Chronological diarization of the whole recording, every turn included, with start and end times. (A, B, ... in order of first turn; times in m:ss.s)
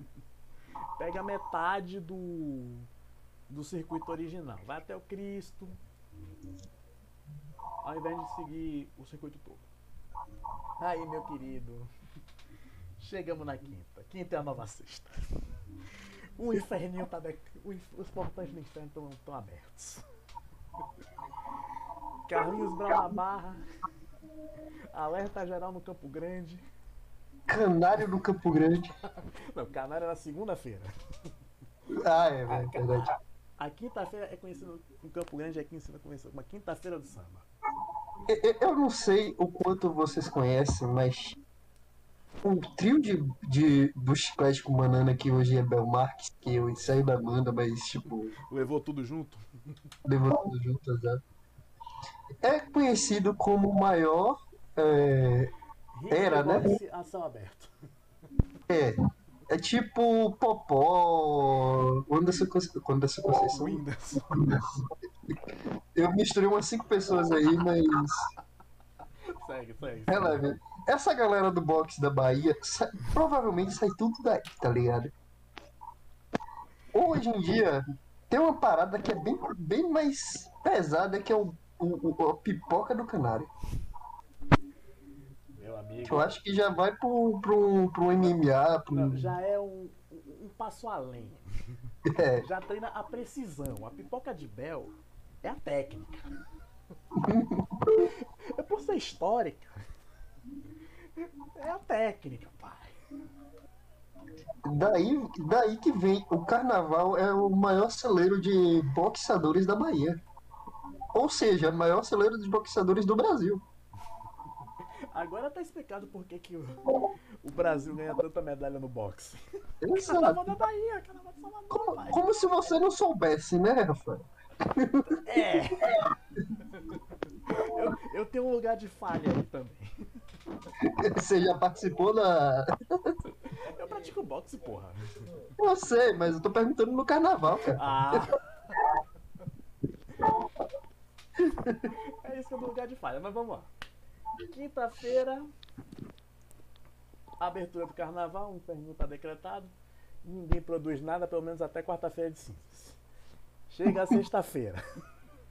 0:01.0-0:02.9 A
0:03.5-0:05.8 A
0:07.8-0:09.7 A
0:10.8-0:11.9 A
0:13.0-0:15.2 A
0:16.4-0:20.0 A
0:22.3-0:23.6 A
0:24.9-0:26.6 A
0:27.5-0:28.9 B
0:29.1-0:30.9 A
0:31.9-0:33.1 B
0:32.5-0:37.5 A
0:38.2-0:41.4 B
0:42.4-0:48.3 B
0:48.5-0:49.4 A
0:50.0-0:51.2 B
0:52.4-0:55.5 B
0:55.9-0:57.7 A
0:56.1-0:56.8 B
0:58.7-0:59.0 B
0:59.5-1:03.8 B
1:03.5-1:04.6 A
1:04.4-1:05.4 B
1:05.9-1:08.3 B
1:09.3-1:10.4 A
1:10.1-1:15.1 B
1:16.9-1:23.5 B
1:25.6-1:26.3 A
1:26.1-1:29.3 B
1:28.9-1:31.4 A
1:32.0-1:32.4 B
1:32.4-1:36.3 A
1:37.2-1:38.1 B
1:38.0-1:39.8 A
1:41.2-1:42.9 A
1:44.6-1:50.2 B
1:51.1-1:53.6 B
1:55.1-1:56.9 A
1:57.4-1:59.4 A
1:59.8-2:00.4 B
2:00.0-2:02.3 A
2:01.7-2:05.2 B
2:05.2-2:06.1 A
2:05.8-2:06.1 B
2:07.4-2:09.9 A
2:10.8-2:13.2 B
2:13.5-2:15.3 A
2:15.6-2:18.3 B
2:17.8-2:18.8 A
2:21.4-2:21.9 B
2:22.2-2:23.7 A
2:24.5-2:25.5 A
2:27.4-2:33.0 A
2:33.7-2:34.8 A